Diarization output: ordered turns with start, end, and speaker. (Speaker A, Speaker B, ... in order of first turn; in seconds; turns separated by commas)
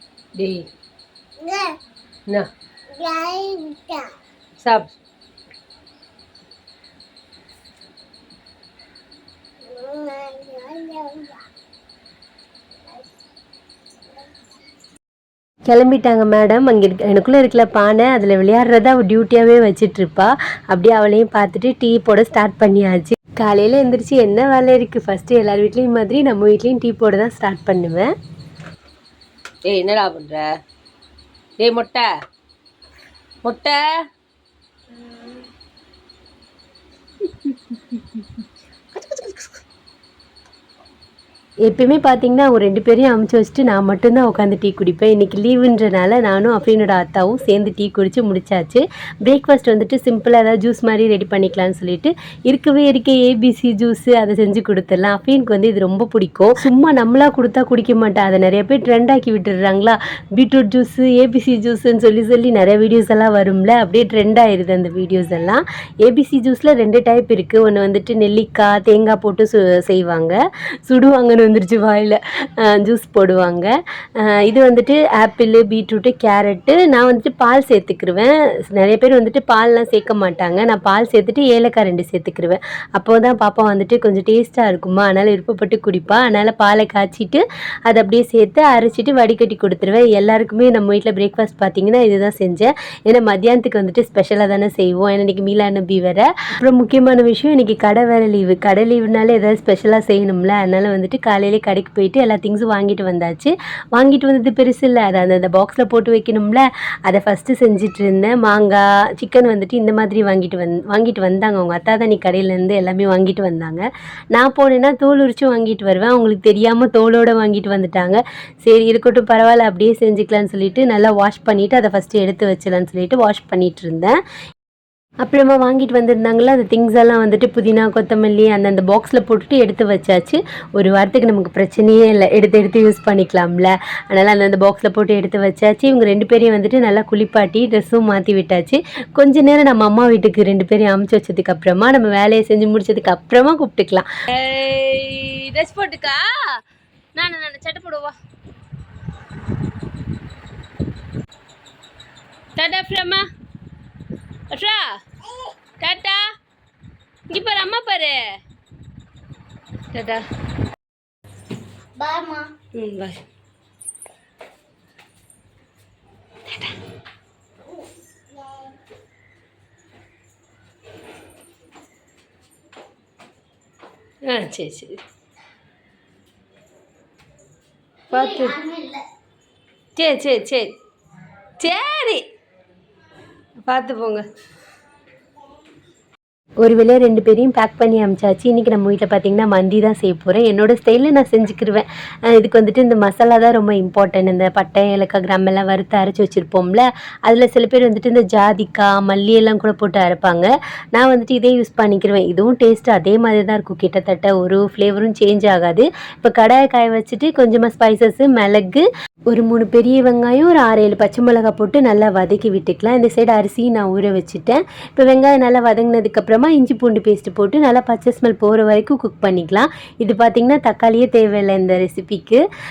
Speaker A: 0.4-0.7, Speaker B: 1.4-1.8, Speaker B: 2.9-4.1, Speaker A: 4.6-4.9, Speaker B: 9.7-11.4, Speaker C: 15.7-28.1, Speaker A: 29.6-30.6, Speaker A: 31.6-32.1, Speaker A: 33.4-33.9, Speaker A: 38.9-39.6, Speaker C: 41.7-124.2, Speaker C: 125.2-144.1, Speaker A: 144.3-146.4, Speaker A: 147.2-148.1, Speaker A: 152.6-153.2, Speaker A: 154.5-154.9, Speaker A: 155.8-156.2, Speaker A: 157.3-158.4, Speaker A: 159.9-160.2, Speaker B: 162.0-162.5, Speaker C: 162.8-163.2, Speaker C: 174.3-175.0, Speaker B: 178.1-179.0, Speaker C: 178.2-178.5, Speaker C: 180.0-180.7, Speaker C: 181.7-182.2, Speaker C: 183.7-184.2, Speaker C: 186.6-222.4